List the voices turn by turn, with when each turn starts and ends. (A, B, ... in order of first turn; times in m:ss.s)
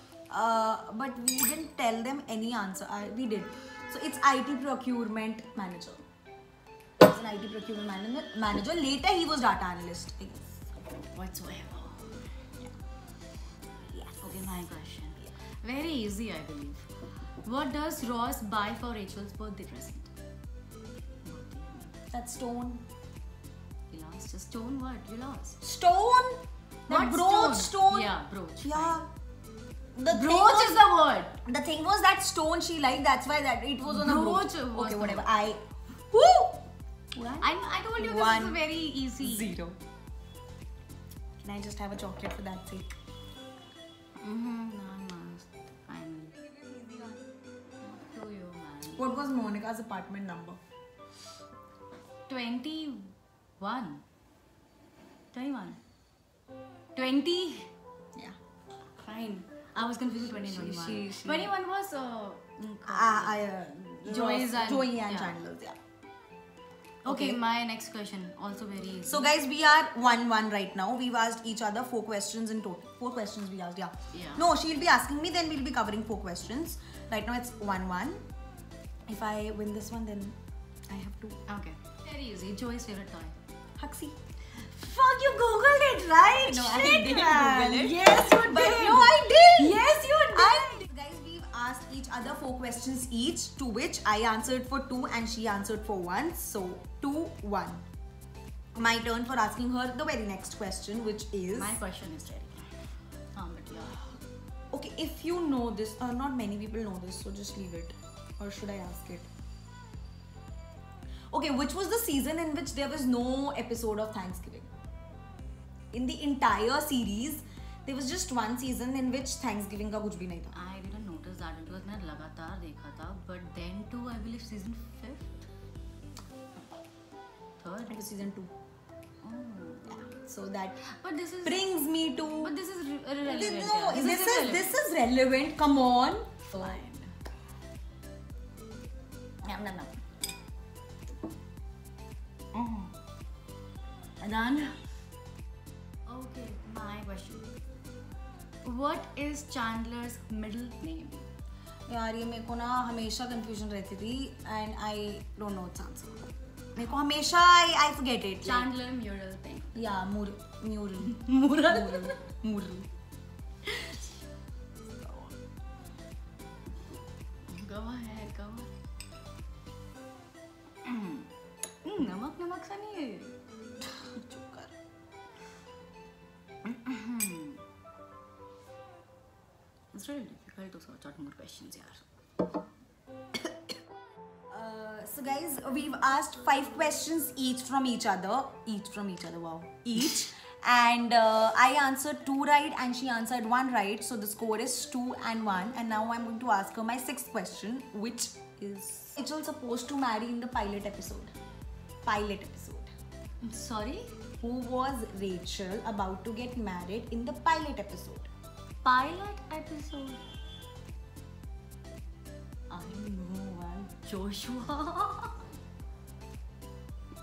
0:00.3-0:06.0 A
0:07.0-0:10.6 A
0:11.1-0:12.2 B
0:13.9-0:14.5 A
0:14.2-0:16.9 B
0:17.4-0:20.1 B
0:21.2-0:22.0 B
0:22.1-0:22.8 A
0:23.9-0:25.6 B
0:25.6-0:29.1 A
0:26.9-0:29.0 B
0:30.0-0:30.8 A
0:30.1-0:31.4 B
0:31.4-0:38.6 A
0:33.8-0:35.3 B
0:37.4-0:39.5 B
0:39.2-0:39.8 A
0:41.4-0:42.9 A
0:44.2-0:46.4 B
0:46.4-0:47.3 A
0:47.8-0:49.2 B
0:48.9-0:50.6 A
0:52.3-0:54.0 B
0:55.3-0:55.8 B
0:57.0-0:57.7 B
0:59.0-1:03.4 B
1:00.4-1:01.5 A
1:02.9-1:05.8 A
1:04.0-1:05.4 B
1:07.0-1:09.3 B
1:07.1-1:07.4 A
1:09.1-1:18.2 A
1:14.1-1:14.5 B
1:19.1-1:20.4 A
1:20.9-1:21.4 A
1:21.5-1:23.4 B
1:23.8-1:24.2 A
1:24.5-1:30.9 B
1:26.3-1:37.9 A
1:38.8-1:41.8 A
1:41.6-1:42.8 B
1:43.3-1:44.1 B
1:44.7-1:49.3 A
1:51.3-1:54.7 A
1:55.9-2:00.6 A
2:00.5-2:05.5 B
2:07.6-2:08.0 B
2:07.9-2:08.5 A
2:09.2-2:10.1 B
2:10.0-2:10.8 A
2:10.8-2:14.8 B
2:11.4-2:12.6 A
2:13.2-2:16.3 A
2:16.5-2:17.2 B
2:19.4-2:19.9 B
2:22.5-2:22.9 B
2:24.2-2:24.8 B
2:26.1-2:27.5 B
2:28.6-2:31.3 B
2:31.9-2:38.7 A
2:38.4-2:39.8 B
2:39.8-2:42.9 A
2:41.0-2:42.2 B
2:43.6-2:44.0 B
2:47.5-2:48.7 B
2:50.8-2:51.3 B
2:51.8-2:53.4 B
2:53.9-2:54.7 A
2:56.6-2:57.6 B
2:59.9-3:02.0 B
3:04.5-3:21.3 A
3:22.0-3:22.9 A
3:23.4-3:24.1 B
3:24.4-3:28.3 A
3:28.8-3:30.2 B
3:32.7-3:35.5 B